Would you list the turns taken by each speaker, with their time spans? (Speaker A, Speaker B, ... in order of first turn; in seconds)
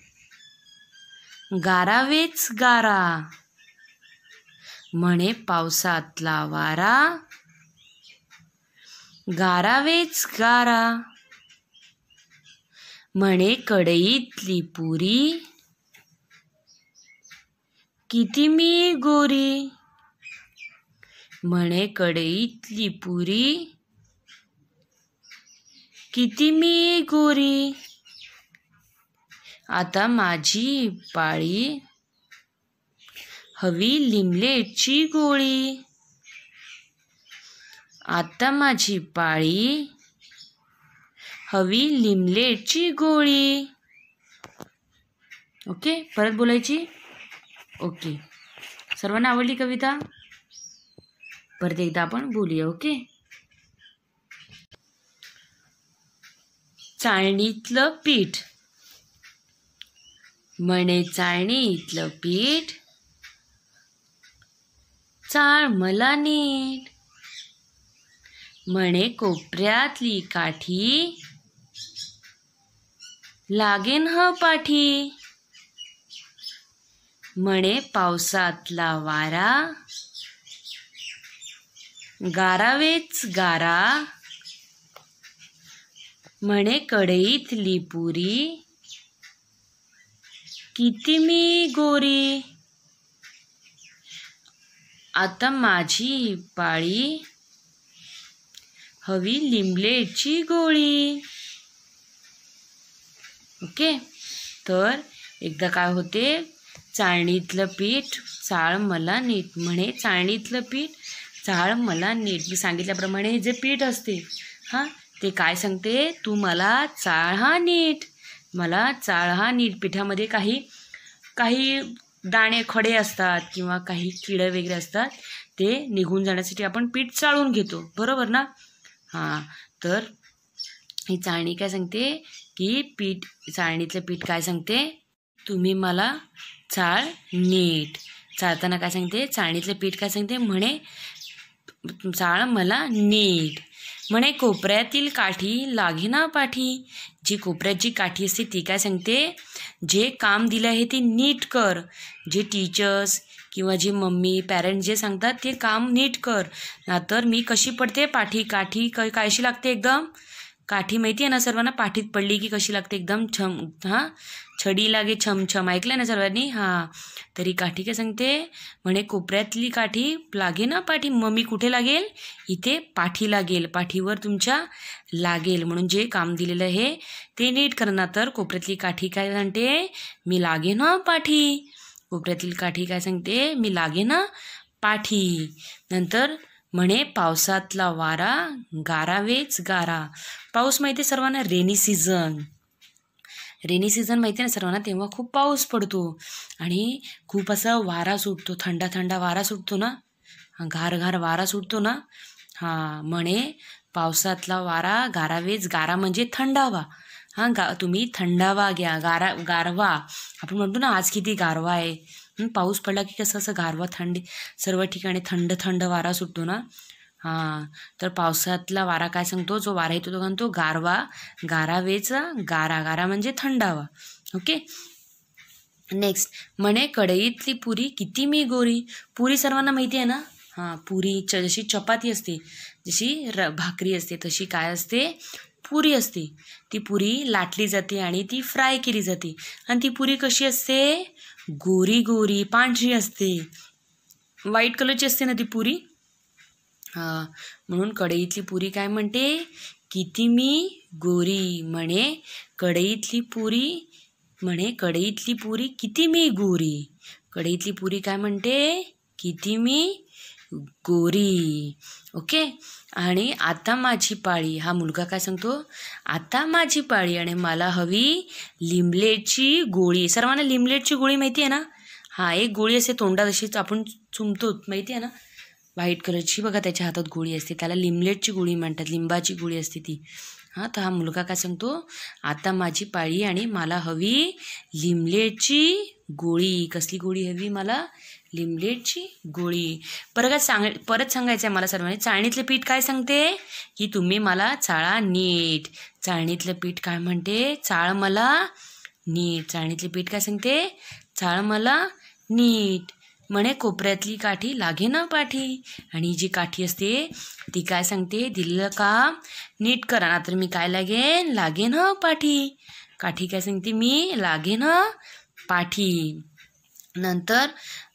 Speaker A: 1.5-3.3, 5.0-7.2, 9.3-11.0, 13.2-15.4, 18.1-19.7, 21.4-23.7, 26.1-27.8, 29.7-31.8, 33.6-35.8, 38.1-39.9, 41.5-43.7, 45.7-46.9, 47.8-48.2, 48.9-50.0, 51.6-53.0, 57.0-58.4, 60.6-62.8, 65.3-66.9, 68.7-71.2, 73.5-75.1, 77.4-79.7, 82.2-84.1, 86.4-88.6, 90.8-92.4, 95.2-97.2, 99.0-101.2, 103.6-104.0, 104.6-120.7, 121.4-128.5, 129.1-130.1, 131.1-140.8, 141.8-160.1, 160.7-184.3, 184.8-192.5, 193.6-200.0, 200.6-202.0, 202.6-216.7, 217.2-224.6, 225.9-243.5, 244.5-245.8, 246.9-253.9, 254.4-260.0, 260.5-275.1, 275.8-280.0, 280.5-298.5, 299.1-315.0, 315.5-316.2, 316.9-317.6